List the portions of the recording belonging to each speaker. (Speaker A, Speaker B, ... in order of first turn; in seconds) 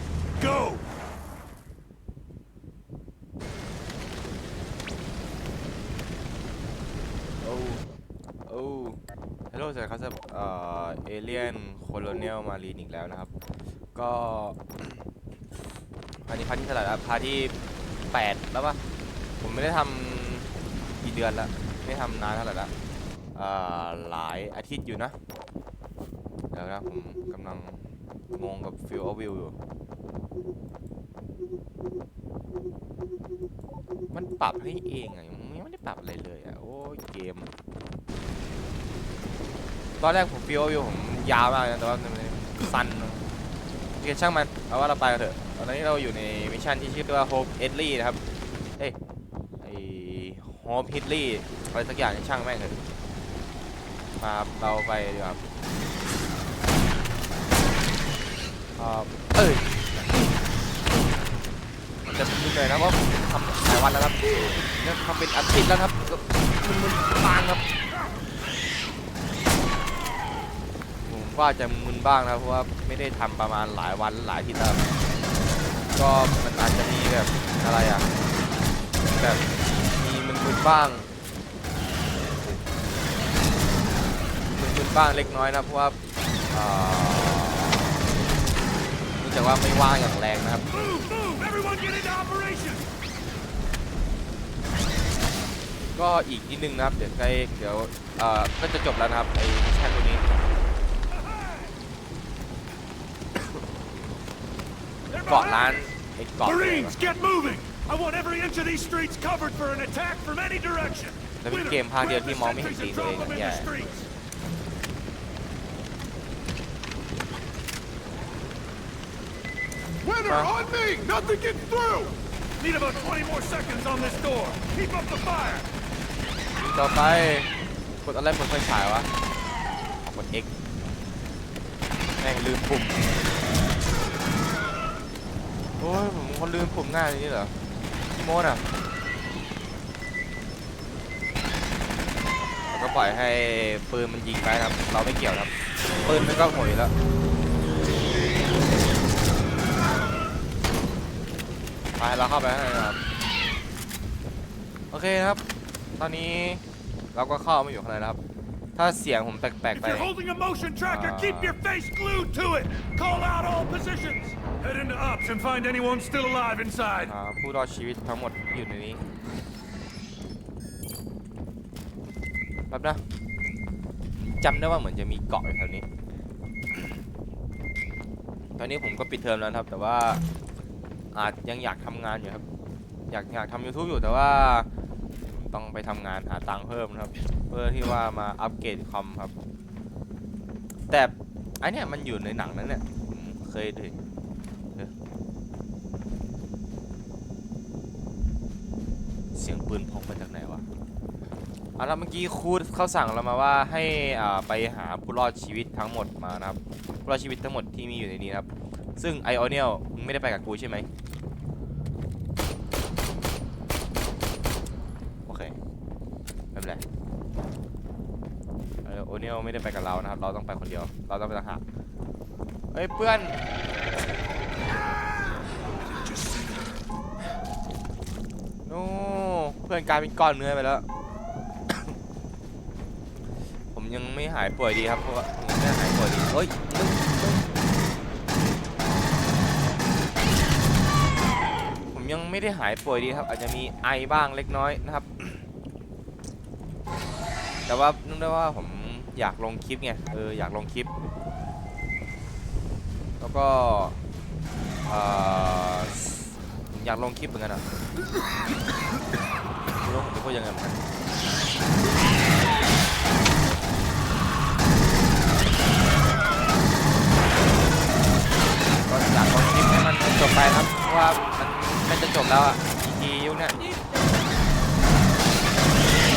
Speaker A: 0.4-0.9, 90.7-92.9, 101.1-101.7, 105.1-114.1, 120.0-125.7, 159.7-167.1, 226.0-226.5
Speaker B: 7.4-7.8, 8.5-9.0, 9.5-13.3, 13.9-14.6, 16.2-17.6, 18.1-18.8, 19.4-22.7, 23.4-25.2, 26.5-27.8, 28.3-29.6, 34.1-37.5, 40.0-43.3, 44.0-48.2, 49.6-52.8, 54.2-55.4, 58.8-59.8, 62.0-67.7, 71.0-74.8, 76.0-78.1, 79.2-79.4, 80.0-81.1, 84.5-86.0, 86.5-88.1, 89.2-90.7, 96.0-100.2, 105.3-107.0, 111.4-113.7, 126.6-127.5, 128.0-129.1, 130.0-130.5, 132.2-133.1, 135.8-137.6, 138.1-138.6, 142.7-145.5, 146.0-146.9, 152.0-153.0, 154.9-155.4, 156.0-156.6, 157.1-158.2, 158.8-160.1, 160.9-161.6, 167.1-169.0, 172.7-173.0, 174.2-175.9, 178.6-180.2, 181.1-182.4, 183.1-184.7, 185.2-189.3, 190.9-194.0, 199.3-200.7, 201.8-210.9, 215.3-215.6, 216.5-216.8, 218.8-221.6, 222.7-223.4, 228.7-230.9, 233.7-237.4, 241.9-245.4, 247.7-250.9, 253.2-254.0, 254.9-257.6, 259.8-260.8, 268.8-273.6